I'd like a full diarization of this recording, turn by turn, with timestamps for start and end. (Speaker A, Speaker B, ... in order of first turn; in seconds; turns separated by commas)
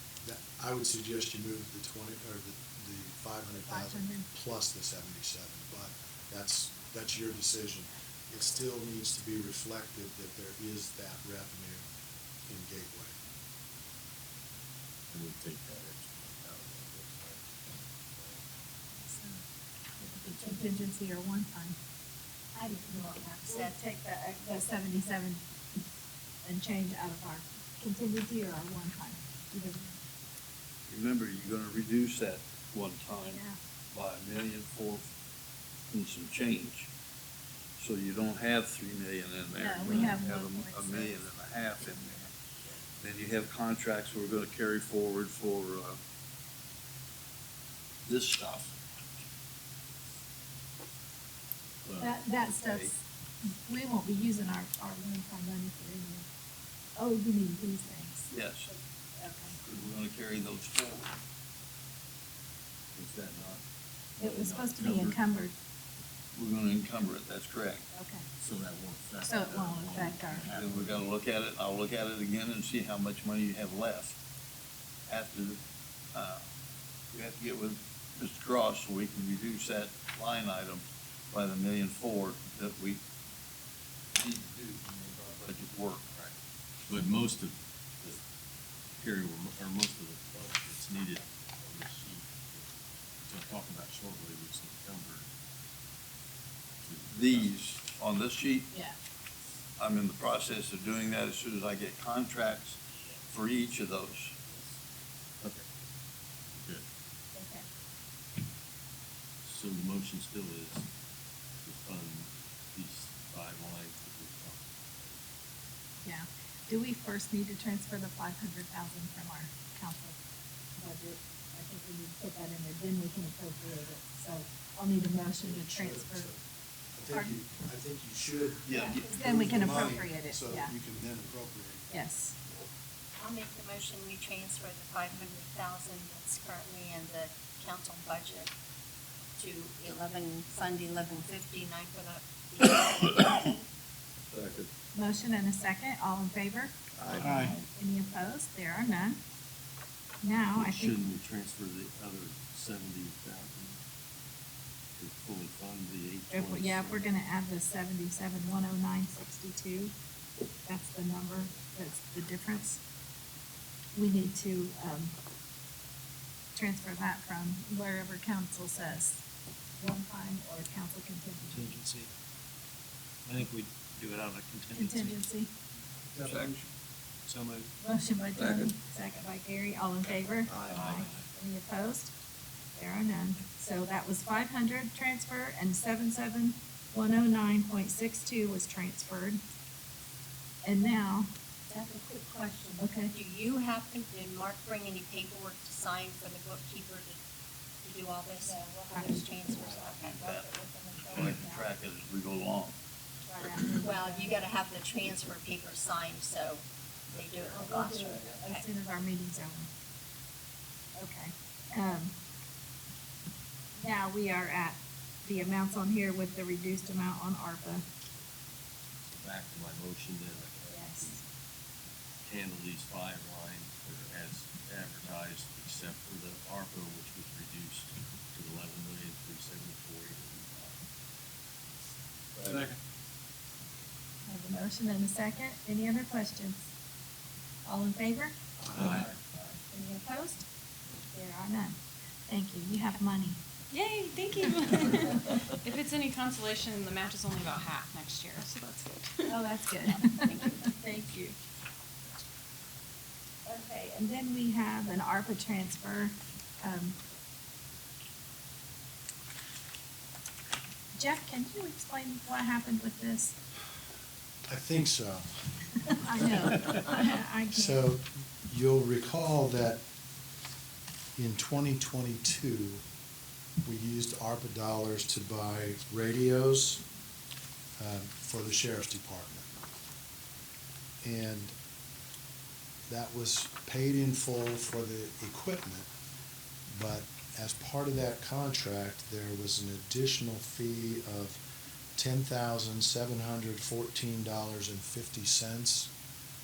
Speaker A: 0.2-11.8, Speaker B: 3.6-4.2, Speaker A: 12.5-13.2, Speaker C: 15.1-18.4, Speaker B: 18.9-19.4, Speaker B: 20.0-21.8, Speaker C: 20.1-20.7, Speaker D: 22.5-23.8, Speaker B: 23.4-25.4, Speaker B: 26.4-30.0, Speaker E: 30.9-33.4, Speaker B: 33.1-33.6, Speaker E: 33.9-35.1, Speaker E: 35.9-36.9, Speaker E: 37.8-42.3, Speaker B: 39.5-41.2, Speaker E: 43.0-46.0, Speaker E: 48.0-48.8, Speaker E: 51.9-52.9, Speaker B: 52.0-53.0, Speaker B: 53.6-56.3, Speaker B: 57.0-59.6, Speaker E: 58.3-58.7, Speaker E: 59.6-61.2, Speaker C: 62.9-63.6, Speaker C: 64.2-65.2, Speaker B: 64.2-65.5, Speaker E: 66.3-67.8, Speaker B: 67.9-68.2, Speaker C: 68.4-71.1, Speaker B: 69.2-70.5, Speaker E: 70.5-74.2, Speaker E: 75.1-75.6, Speaker E: 76.1-76.5, Speaker E: 77.1-83.0, Speaker E: 84.1-86.1, Speaker C: 86.9-88.2, Speaker C: 89.0-95.3, Speaker C: 96.8-97.6, Speaker E: 97.1-98.7, Speaker E: 99.8-104.3, Speaker C: 103.0-103.8, Speaker C: 104.5-104.8, Speaker C: 106.5-106.8, Speaker B: 107.3-107.6, Speaker C: 109.4-110.9, Speaker C: 111.6-115.2, Speaker B: 116.0-120.2, Speaker B: 120.8-126.3, Speaker A: 125.4-126.4, Speaker A: 126.9-131.9, Speaker B: 127.1-127.3, Speaker E: 128.7-129.1, Speaker B: 128.9-130.7, Speaker B: 131.9-132.3, Speaker D: 133.2-138.5, Speaker D: 139.4-143.6, Speaker E: 142.8-143.3, Speaker E: 144.3-144.7, Speaker B: 144.9-146.7, Speaker E: 147.0-147.4, Speaker C: 147.1-147.7, Speaker F: 147.2-147.5, Speaker B: 147.7-149.2, Speaker B: 150.2-151.0, Speaker C: 150.5-153.8, Speaker C: 155.0-157.1, Speaker B: 156.3-159.9, Speaker B: 160.6-162.8, Speaker B: 163.9-165.2, Speaker B: 166.5-169.2, Speaker B: 169.8-171.8, Speaker F: 171.6-172.1, Speaker F: 173.2-175.1, Speaker B: 174.7-175.5, Speaker E: 176.2-176.6, Speaker F: 177.3-177.7, Speaker B: 177.8-182.1, Speaker E: 178.4-178.6, Speaker C: 180.7-181.1, Speaker B: 182.7-189.4, Speaker B: 190.6-191.3, Speaker D: 191.7-197.2, Speaker B: 192.8-193.1, Speaker D: 197.8-201.4, Speaker B: 198.4-199.2, Speaker E: 199.8-200.5, Speaker E: 201.1-202.8, Speaker B: 203.2-204.4, Speaker D: 203.7-208.6, Speaker B: 207.5-209.7, Speaker B: 211.0-212.1, Speaker B: 213.8-217.8, Speaker C: 219.0-221.2, Speaker B: 220.7-221.2, Speaker C: 222.2-230.8, Speaker F: 232.4-232.7, Speaker B: 234.2-236.6, Speaker B: 237.6-238.4, Speaker B: 239.4-240.4, Speaker B: 241.1-243.4, Speaker G: 243.7-250.6, Speaker B: 244.4-245.4, Speaker B: 249.3-251.3, Speaker B: 253.4-257.0, Speaker B: 261.0-263.4, Speaker A: 264.5-265.3, Speaker B: 265.9-267.8, Speaker A: 266.2-266.5, Speaker A: 267.5-269.8, Speaker A: 271.1-272.8, Speaker A: 273.6-276.8, Speaker A: 277.8-279.5, Speaker A: 281.0-281.5, Speaker A: 282.9-285.9, Speaker A: 286.7-291.4, Speaker A: 291.9-295.9